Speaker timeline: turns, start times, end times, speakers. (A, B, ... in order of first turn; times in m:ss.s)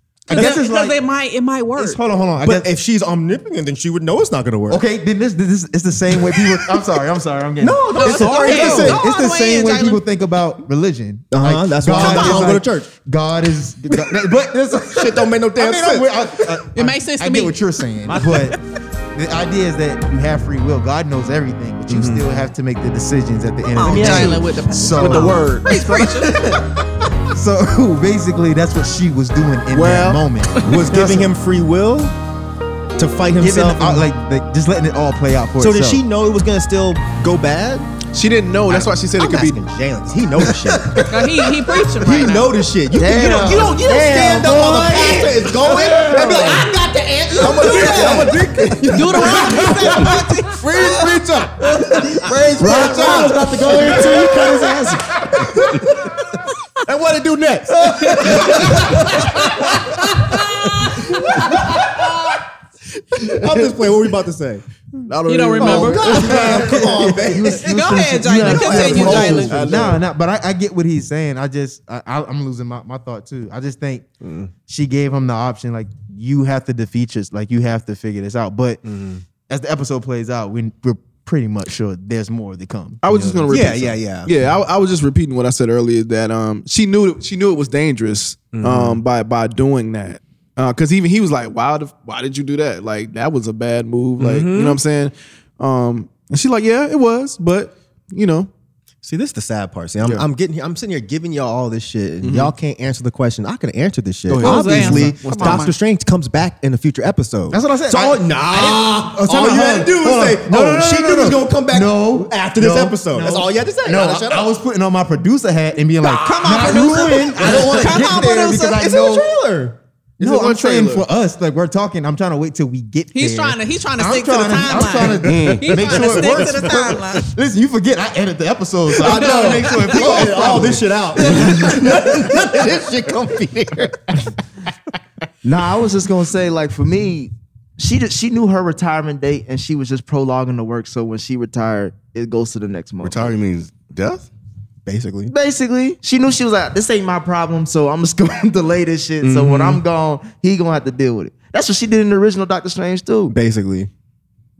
0:00.3-0:01.0 A
0:00.3-0:02.0 B
0:01.8-0:02.7 A
0:02.4-0:04.8 C
0:04.7-0:18.6 A
0:06.3-0:06.8 C
0:07.6-0:09.0 C
0:08.0-0:10.0 B
0:11.3-0:12.9 C
0:12.0-0:12.4 B
0:14.1-0:16.6 C
0:16.7-0:17.6 B
0:18.1-0:18.5 B
0:19.1-0:25.6 A
0:21.9-0:22.2 C
0:23.7-0:26.7 B
0:23.9-0:24.3 D
0:23.9-0:24.3 E
0:24.9-0:26.6 E
0:27.3-0:31.3 A
0:29.7-0:30.2 E
0:30.6-0:32.1 C
0:33.0-0:34.1 C
0:33.4-0:36.0 A
0:35.6-0:37.9 C
0:38.1-0:39.6 E
0:38.7-0:54.8 C
0:40.4-0:41.0 E
0:41.0-0:42.5 B
0:42.9-0:46.7 D
0:47.4-0:51.6 E
0:47.4-0:48.3 D
0:48.8-0:50.6 B
0:52.2-0:53.0 E
0:52.5-0:55.1 D
0:55.4-0:55.9 C
0:57.2-0:59.3 C
0:58.0-0:58.5 B
0:59.4-1:01.4 B
1:03.2-1:04.6 C
1:05.0-1:06.9 E
1:05.2-1:06.4 B
1:05.6-1:09.8 C
1:06.3-1:10.0 D
1:07.5-1:09.5 B
1:08.6-1:10.0 E
1:08.8-1:14.1 A
1:14.2-1:14.5 C
1:14.6-1:23.8 A
1:18.8-1:19.2 C
1:23.0-1:38.5 E
1:23.5-1:24.3 C
1:28.5-1:29.0 C
1:34.2-1:34.8 C
1:39.0-1:54.5 C
1:42.2-1:42.5 E
1:44.3-1:45.7 E
1:44.4-1:45.7 B
1:47.5-1:59.3 A
1:56.0-1:58.4 B
1:56.6-1:59.8 C
2:00.2-2:01.1 E
2:00.2-2:12.8 A
2:03.1-2:07.3 B
2:05.2-2:06.3 F
2:05.8-2:06.5 C
2:08.9-2:14.3 C
2:09.3-2:09.9 B
2:15.4-2:23.3 D
2:23.0-2:24.3 F
2:24.8-2:25.3 C
2:25.3-2:33.3 D
2:29.2-2:29.7 C
2:33.3-2:33.9 C